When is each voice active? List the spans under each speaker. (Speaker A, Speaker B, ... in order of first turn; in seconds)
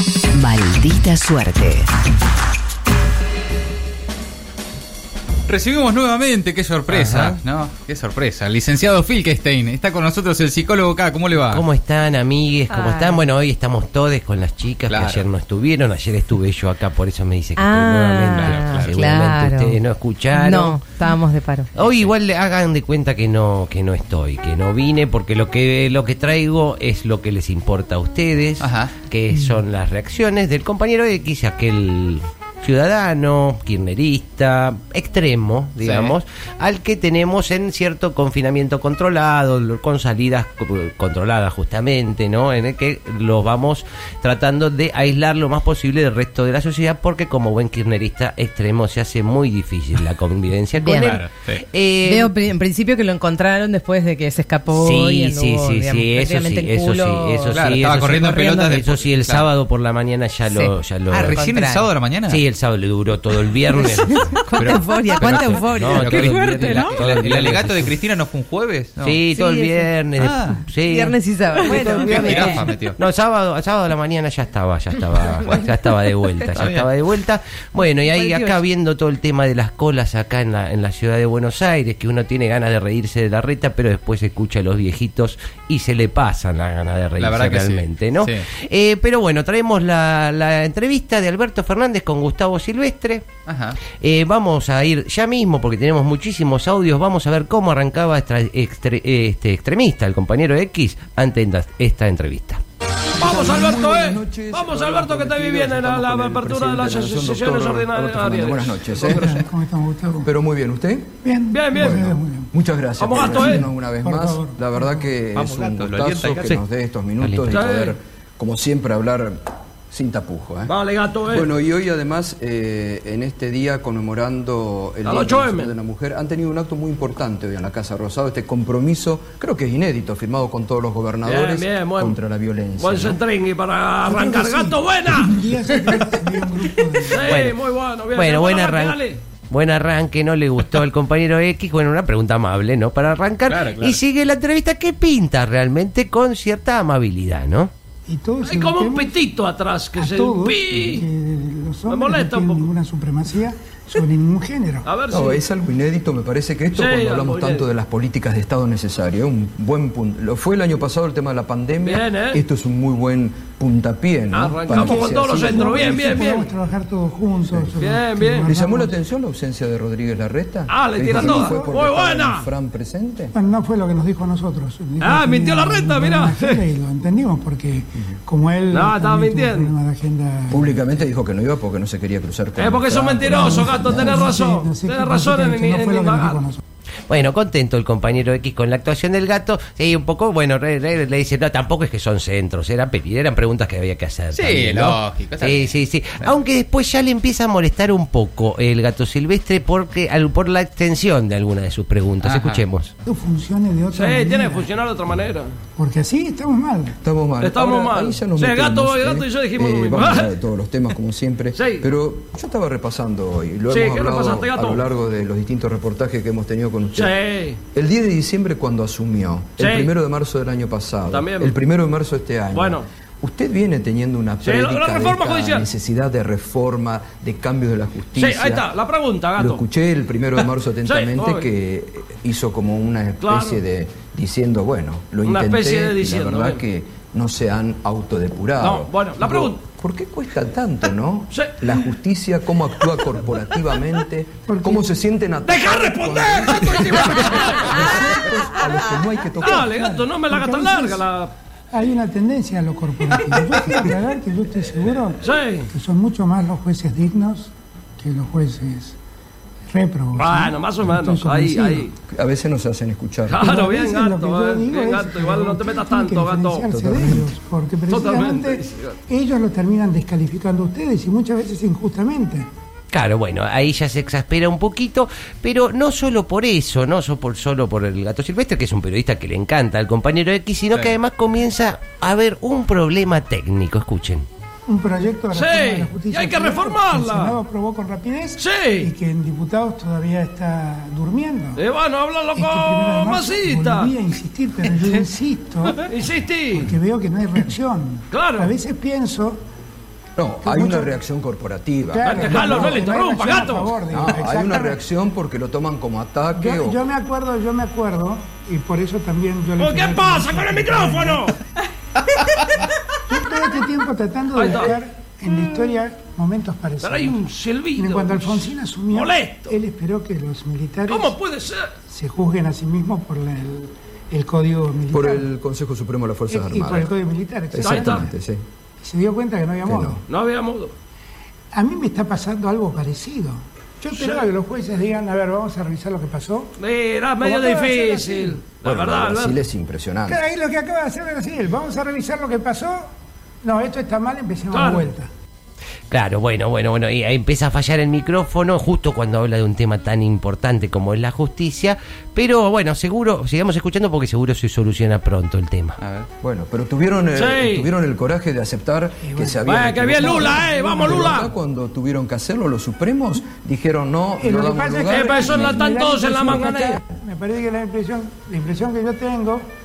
Speaker A: 5.5-11.6, 14.9-15.3, 18.3-19.0, 21.8-22.1, 28.6-28.9, 35.8-36.1, 51.0-51.6, 57.5-59.5, 61.1-62.4, 64.5-69.3, 70.2-70.6, 71.6-73.0, 76.5-76.9, 87.2-88.5, 93.5-93.8, 115.3-116.6, 143.5-144.0, 194.3-195.7, 202.2-202.7, 355.8-356.1
Speaker B: 6.9-7.4, 11.3-21.0, 21.7-52.3, 54.7-61.5, 62.3-64.4, 65.2-68.0, 69.0-93.3, 93.9-102.6, 117.2-117.6, 137.2-137.6, 138.1-147.7, 187.1-202.9, 272.9-284.2, 345.9-355.8
Speaker C: 12.7-13.3, 17.6-19.8, 20.3-21.7, 29.3-29.6, 50.8-51.2, 52.0-58.9, 60.5-61.9, 63.7-67.3, 69.3-70.0, 70.7-72.8, 77.8-78.6
Speaker D: 103.2-109.4, 110.2-111.2, 111.7-120.7, 121.3-133.2, 155.1-166.4, 168.4-173.3, 180.5-184.1, 207.0-217.2, 217.7-228.7, 229.3-249.8, 262.1-263.4, 266.7-267.3, 300.2-302.8, 303.8-306.8, 324.9-326.9, 327.5-328.4, 329.6-330.0, 338.6-340.2, 356.2-366.8
Speaker E: 103.2-109.3, 111.5-112.0, 113.0-113.7, 117.5-118.0, 120.7-121.5, 125.0-125.7, 131.2-132.2, 132.8-135.9, 137.0-139.2, 148.4-151.1, 151.9-152.7, 154.8-155.4, 156.7-157.7, 161.8-162.4, 164.3-166.5, 167.8-168.5, 170.7-172.5, 175.0-176.6, 178.7-179.7, 182.6-186.4, 203.9-205.5, 207.4-210.3, 211.5-211.8, 213.7-214.8, 216.9-217.6, 219.6-219.9, 221.1-221.6, 222.5-222.9, 224.4-225.7, 228.1-229.6, 230.8-231.5, 233.2-233.6, 235.2-236.6, 238.6-239.6, 241.3-241.6, 245.4-248.3, 249.4-251.3, 255.2-255.7, 260.1-261.9, 263.3-266.7, 267.9-268.9, 285.3-287.4, 288.4-288.9, 291.6-293.9, 295.8-296.7, 298.1-298.5, 302.0-303.8, 309.6-311.4, 314.3-314.8, 316.8-319.6, 320.9-321.7, 327.6-328.1, 330.1-330.7, 333.9-334.2, 336.6-339.4, 344.5-344.9, 357.1-357.7, 359.4-361.3, 364.9-366.8
Speaker F: 109.0-110.3, 111.2-112.5, 113.1-115.1, 134.0-137.3, 148.1-149.2, 149.9-154.9, 164.7-169.0, 171.0-171.7, 173.3-180.9, 183.3-186.6, 203.0-204.7, 205.8-207.0, 244.5-244.9, 249.4-251.0, 251.7-258.9, 259.7-261.9, 263.4-272.5, 284.7-291.6, 292.3-295.8, 296.5-299.4, 300.4-300.9, 301.9-304.8, 306.3-311.3, 313.1-321.1, 321.9-325.3, 326.3-328.1, 328.8-330.1, 331.5-336.5, 337.2-338.4, 340.1-342.8, 343.4-345.1, 359.0-359.4, 359.9-361.3, 364.2-369.5